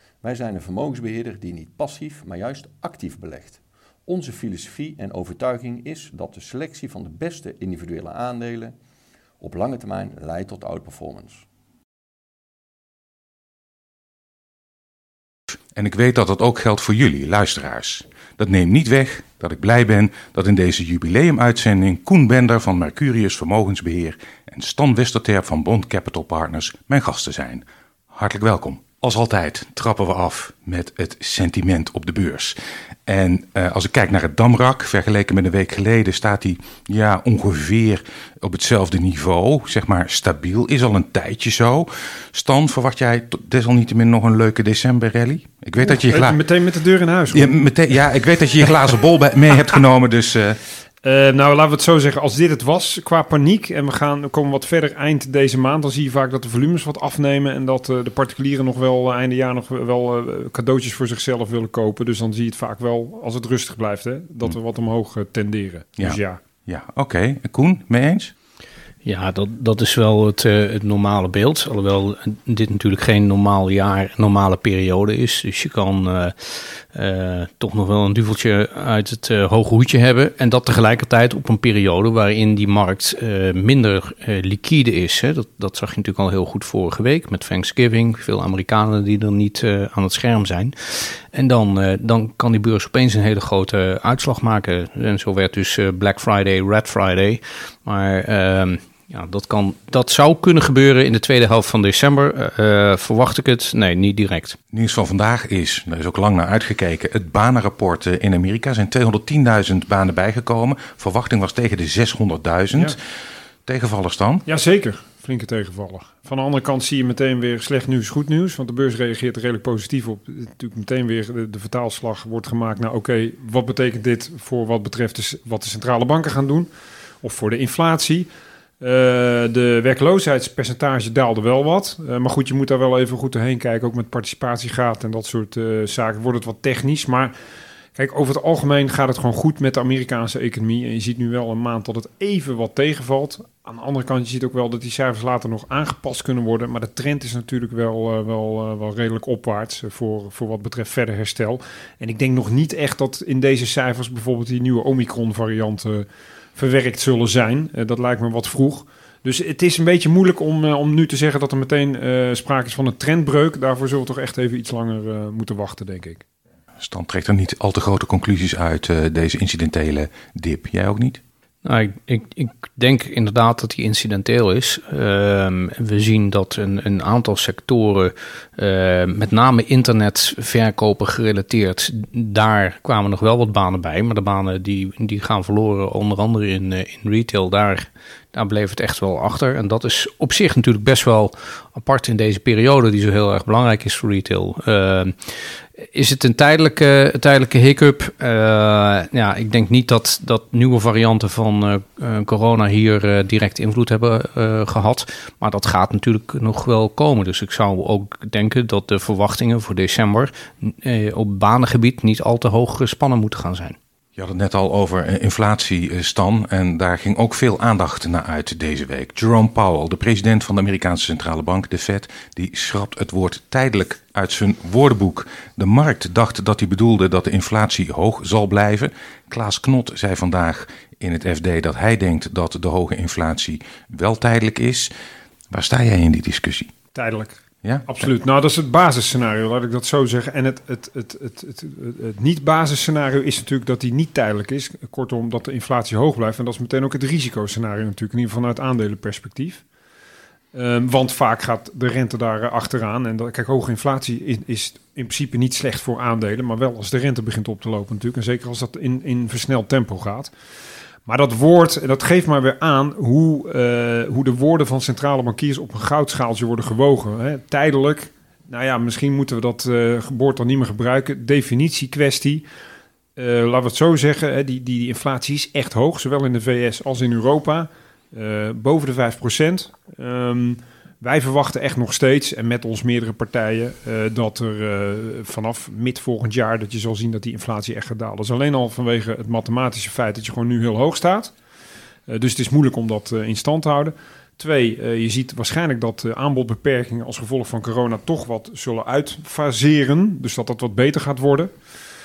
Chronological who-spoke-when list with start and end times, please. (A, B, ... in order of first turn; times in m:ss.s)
0:00.2-0:08.7 A
0:09.4-0:11.4 A
0:15.7-0:32.5 B
0:33.0-0:46.4 B
0:45.8-0:47.5 C
0:47.3-0:50.6 B
0:51.0-1:06.4 C
1:06.0-1:08.3 B
1:09.0-1:44.6 D
1:44.7-1:53.0 B
1:53.6-1:54.4 B
1:54.4-2:06.7 C
2:07.2-2:08.3 C
2:08.8-2:17.3 C
2:18.0-2:46.2 C
2:46.8-2:51.2 B
2:51.6-3:33.8 D
3:34.2-3:54.9 B
3:55.5-3:56.7 B
3:56.9-4:09.6 C
3:57.6-3:57.9 B
4:10.5-4:20.3 C
4:21.0-4:32.4 C
4:33.2-4:51.3 C
4:52.1-5:01.5 C